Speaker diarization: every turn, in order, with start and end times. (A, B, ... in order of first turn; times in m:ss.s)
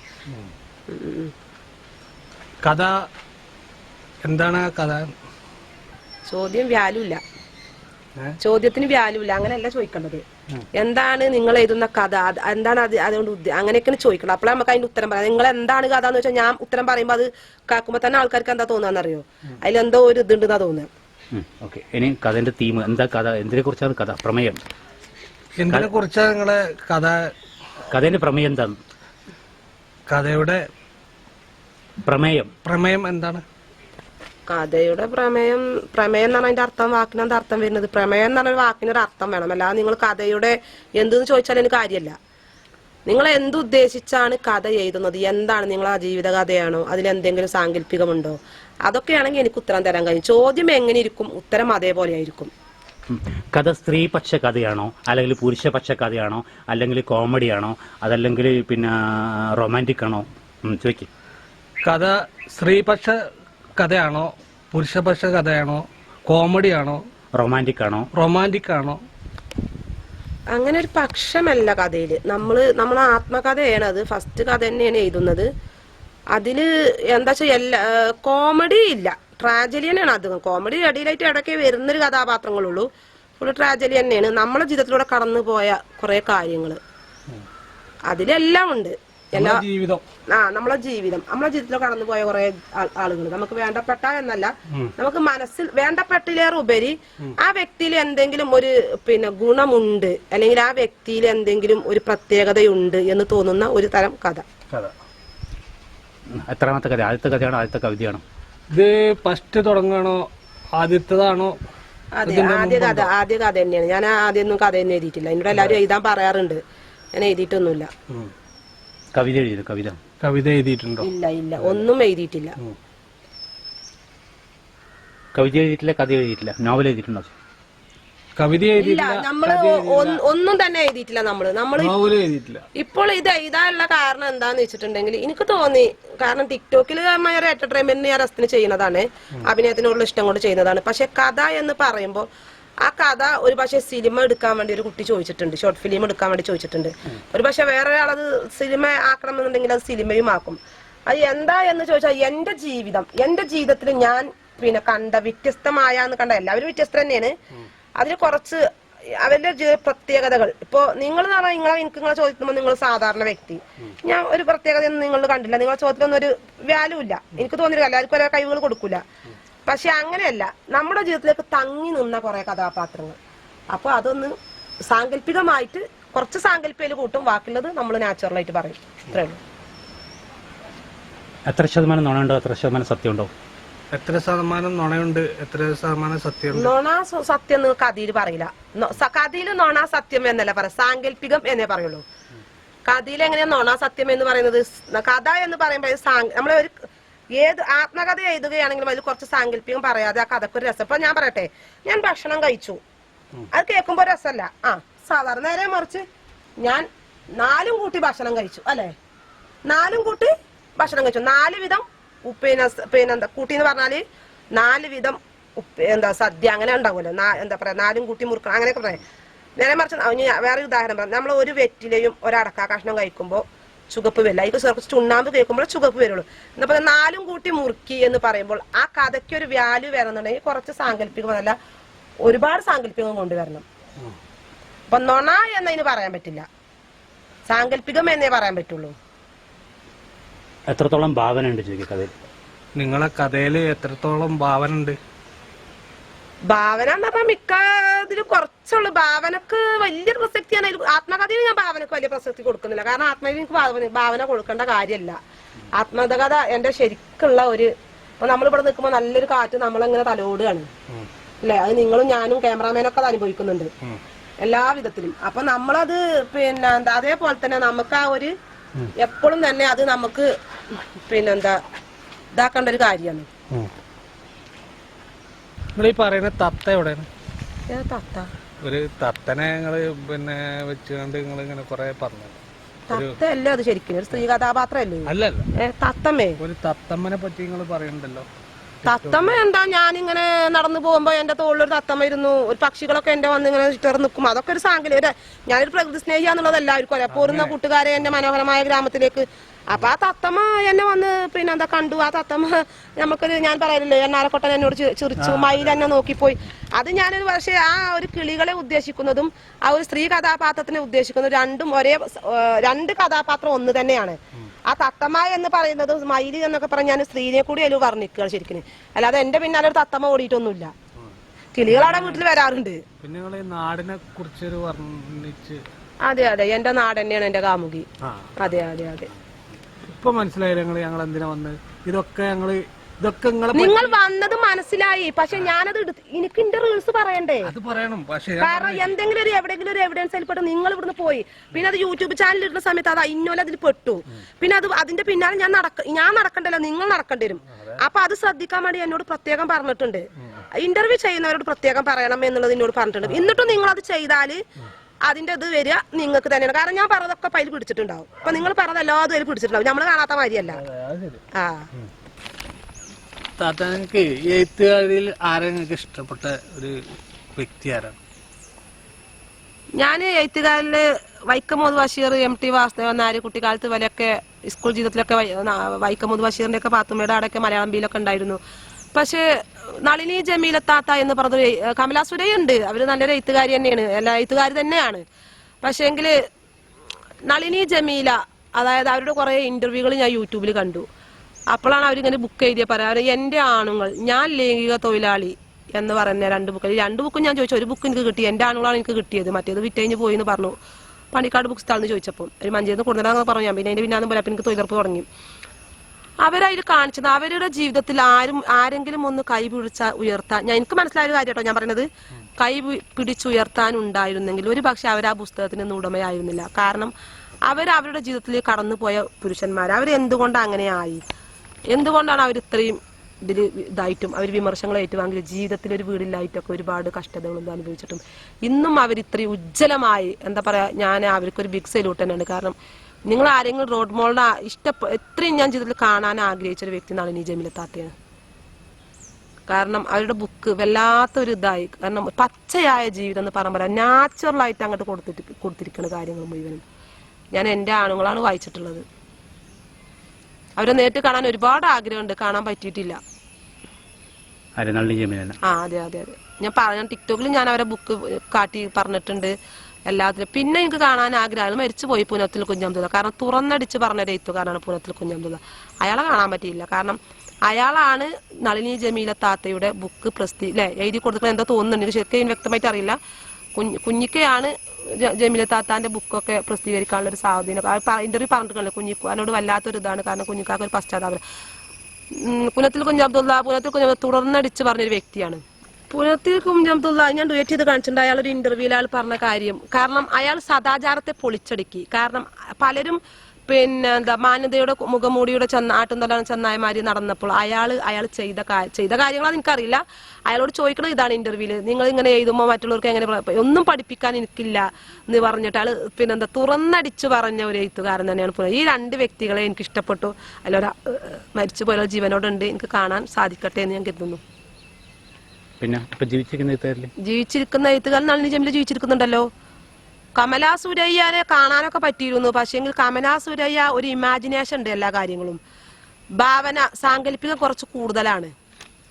0:00.9-0:01.3 A
0:02.6-0:02.9 B
0:04.2-0:05.1 B
0:06.3-0:07.2 A
0:08.4-0:10.2 A
0:10.7-0:20.9 A
0:21.3-0:24.6 C
0:25.6-0:27.3 B
0:27.9-0:28.8 C
0:30.1-0:30.6 B
0:32.0-0:32.5 C
0:32.6-0:33.4 B
0:34.5-0:42.1 A
0:43.0-0:52.5 A
0:53.1-1:01.1 C
1:01.8-1:03.2 B
1:03.8-1:07.0 B
1:07.4-1:08.1 C
1:08.1-1:09.0 B
1:10.5-1:15.5 A
1:16.3-1:22.9 A
1:23.4-1:26.8 A
1:28.1-1:29.6 A
1:29.4-1:30.0 B
1:30.3-1:44.4 A
1:46.3-1:48.2 C
1:48.7-1:51.6 B
1:52.1-1:56.6 A
1:52.2-1:53.1 B
1:55.5-1:55.8 B
1:57.1-1:57.9 A
1:59.1-2:00.0 C
2:00.2-2:01.1 B
2:01.0-2:02.5 A
2:05.3-2:07.3 C
2:08.4-2:10.2 B
2:08.8-2:11.9 A
2:11.8-2:12.6 B
2:12.8-2:22.2 A
2:22.8-2:37.3 A
2:38.0-2:38.6 A
2:39.2-2:49.0 A
2:49.6-2:53.2 A
2:53.7-2:54.3 A
2:54.9-2:59.4 A
3:01.5-3:03.3 C
3:03.9-3:06.7 B
3:06.5-3:12.0 A
3:12.9-3:16.7 A
3:17.4-3:22.8 A
3:23.5-3:26.0 A
3:27.4-3:28.9 A
3:29.7-3:34.0 A
3:34.5-3:39.0 A
3:39.6-3:51.6 A
3:52.2-3:53.6 A
3:54.9-3:56.4 A
3:57.5-3:58.9 A
4:00.7-4:02.1 C
4:02.8-4:05.0 B
4:06.5-4:15.2 A
4:15.7-4:20.7 A
4:21.4-4:23.7 A
4:24.4-4:28.3 A
4:29.0-4:31.6 A
4:32.3-4:33.3 A
4:35.8-4:37.1 B
4:37.7-4:38.3 A
4:38.6-4:42.4 B
4:42.9-4:46.4 A
4:42.9-4:43.2 B
4:45.1-4:45.5 B
4:46.4-4:48.3 B
4:48.8-4:49.4 B
4:48.8-5:20.7 A
4:57.1-4:57.6 B
5:05.2-5:05.8 B
5:21.5-5:22.8 A
5:21.7-5:22.2 B
5:23.0-5:25.6 B
5:26.0-5:29.1 A
5:28.0-5:28.3 B
5:29.9-5:34.0 B
5:33.5-5:37.5 A
5:37.4-5:38.9 B
5:38.4-5:54.4 A
5:55.0-6:00.6 A
6:00.5-6:01.2 B
6:01.3-6:01.7 A
6:03.4-6:06.8 B
6:07.4-6:08.0 B
6:09.8-6:18.4 A
6:18.9-6:19.2 A
6:19.8-6:25.0 A
6:25.6-6:26.2 A
6:27.3-6:30.8 A
6:31.5-6:40.5 A
6:41.1-6:45.0 A
6:46.2-6:56.9 A
6:57.4-7:01.0 A
7:01.7-7:12.6 A
7:13.1-7:17.9 A
7:19.5-7:26.6 A
7:27.3-7:28.8 A
7:30.6-7:33.0 A
7:34.6-7:35.4 C
7:35.4-7:39.3 A
7:39.9-7:53.0 A
7:53.6-8:01.2 A
8:02.1-8:34.2 A
8:35.6-8:36.9 C
8:37.0-8:39.3 A
8:40.2-8:45.4 A
8:46.2-8:48.3 A